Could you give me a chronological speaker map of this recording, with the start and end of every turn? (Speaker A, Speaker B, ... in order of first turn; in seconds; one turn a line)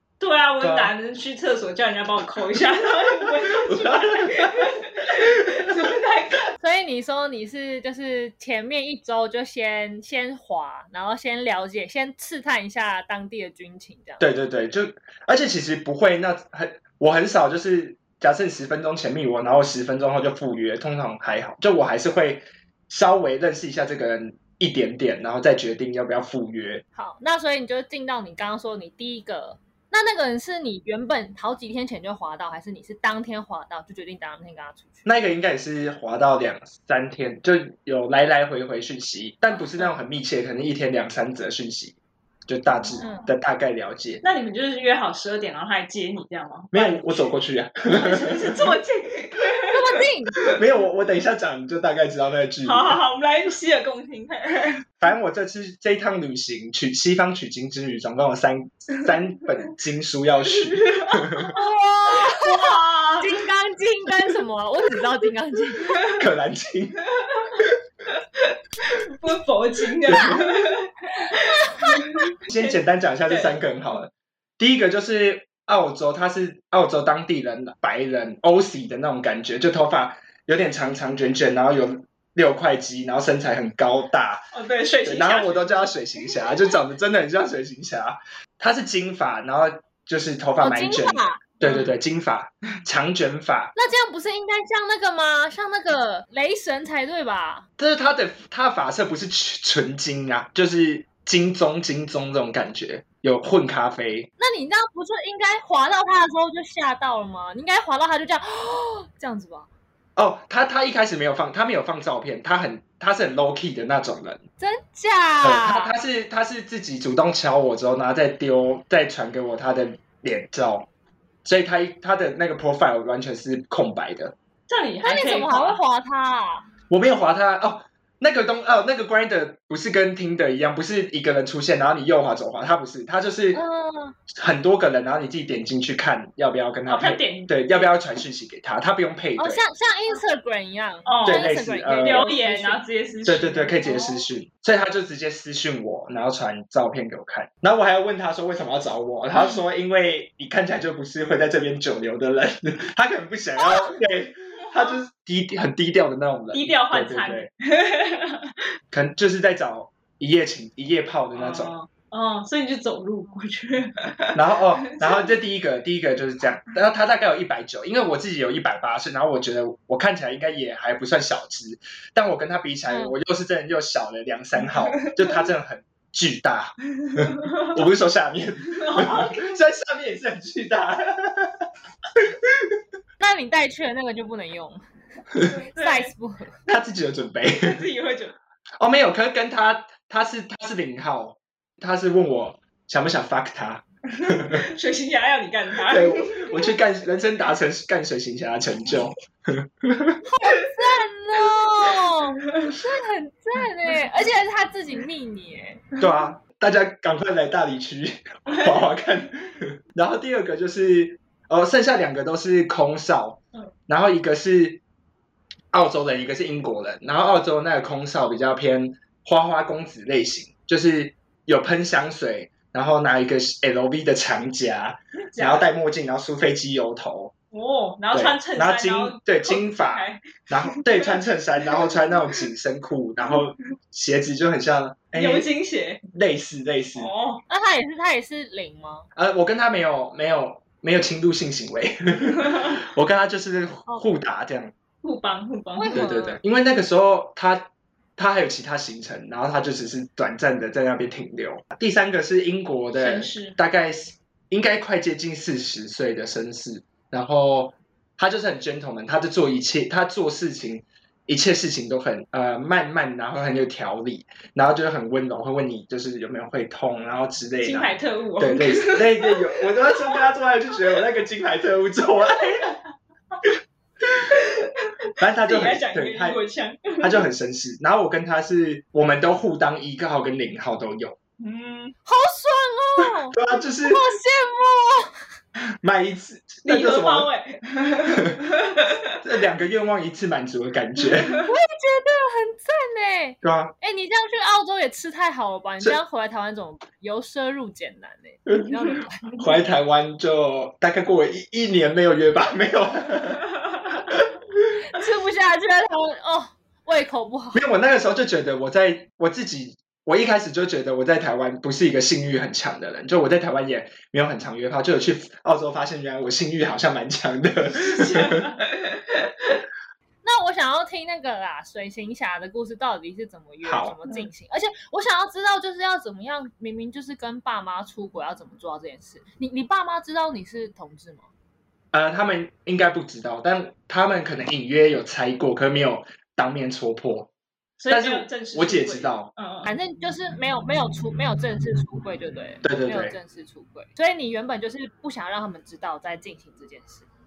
Speaker A: 0.2-6.5
Speaker B: 0.6-0.9
Speaker B: 3.6-4.7
Speaker C: 6.6-14.2
Speaker B: 14.2-26.8
Speaker C: 27.0-35.0
Speaker B: 35.0-44.2
Speaker A: 42.8-43.2
Speaker C: 43.0-43.3
Speaker A: 44.2-47.2
Speaker B: 46.7-48.8
Speaker A: 47.9-50.6
Speaker C: 49.7-50.4
Speaker B: 50.5-53.0
Speaker A: 52.6-54.8
Speaker B: 55.0-61.5
Speaker A: 60.5-61.4
Speaker C: 61.5-66.1
Speaker A: 62.2-63.4
Speaker B: 66.2-67.0
Speaker A: 67.2-72.8
Speaker B: 70.0-70.5
Speaker C: 71.7-72.2
Speaker B: 72.5-84.5
Speaker A: 73.3-73.5
Speaker A: 84.5-85.9
Speaker B: 85.0-93.7
Speaker C: 90.6-91.4
Speaker A: 91.6-91.9
Speaker C: 93.8-97.7
Speaker B: 97.8-104.3
Speaker C: 104.4-109.7
Speaker B: 110.2-114.4
Speaker C: 114.6-115.9
Speaker B: 115.4-120.9
Speaker B: 121.5-124.3
Speaker A: 124.7-125.8
Speaker C: 125.0-126.7
Speaker B: 126.9-133.6
Speaker C: 133.5-134.2
Speaker B: 134.3-139.6
Speaker A: 136.9-137.9
Speaker C: 139.4-142.8
Speaker A: 141.1-144.3
Speaker B: 141.2-142.3
Speaker B: 143.3-157.5
Speaker A: 156.5-158.6
Speaker B: 158.9-161.7
Speaker A: 161.3-165.3
Speaker B: 164.3-181.7
Speaker C: 172.9-173.2
Speaker A: 174.7-175.4
Speaker A: 177.0-177.8
Speaker A: 178.7-179.6
Speaker B: 182.2-182.8
Speaker C: 183.2-184.8
Speaker A: 185.5-186.1
Speaker C: 185.8-186.6
Speaker B: 186.7-187.8
Speaker A: 187.4-188.3
Speaker B: 188.8-194.7
Speaker A: 194.1-196.7
Speaker B: 195.8-200.2
Speaker C: 200.3-205.9
Speaker B: 206.0-214.8
Speaker A: 208.5-208.8
Speaker B: 215.7-227.3
Speaker A: 225.3-225.7
Speaker A: 227.5-231.2
Speaker B: 228.1-235.5
Speaker A: 235.1-236.0
Speaker B: 236.1-237.1
Speaker A: 237.0-237.4
Speaker C: 237.5-239.1
Speaker B: 239.2-244.7
Speaker A: 245.0-246.1
Speaker C: 245.8-246.4
Speaker B: 245.9-272.8
Speaker A: 253.0-253.6
Speaker A: 267.6-270.2
Speaker A: 274.3-277.2
Speaker B: 275.2-276.4
Speaker B: 277.0-281.2
Speaker A: 281.4-282.0
Speaker C: 282.1-285.1
Speaker B: 283.0-284.0
Speaker B: 285.8-287.3
Speaker A: 286.6-289.2
Speaker B: 288.1-288.4
Speaker B: 289.2-291.4
Speaker A: 291.0-291.5
Speaker C: 291.5-299.3
Speaker B: 293.4-293.8
Speaker B: 298.5-298.8
Speaker B: 299.4-303.4
Speaker B: 304.1-304.8
Speaker C: 304.9-307.6
Speaker B: 307.5-318.4
Speaker A: 317.7-319.6
Speaker C: 320.2-331.3
Speaker B: 323.6-323.9
Speaker B: 331.9-337.3
Speaker A: 337.8-339.7
Speaker B: 337.9-339.3
Speaker C: 339.6-347.1
Speaker B: 342.6-343.2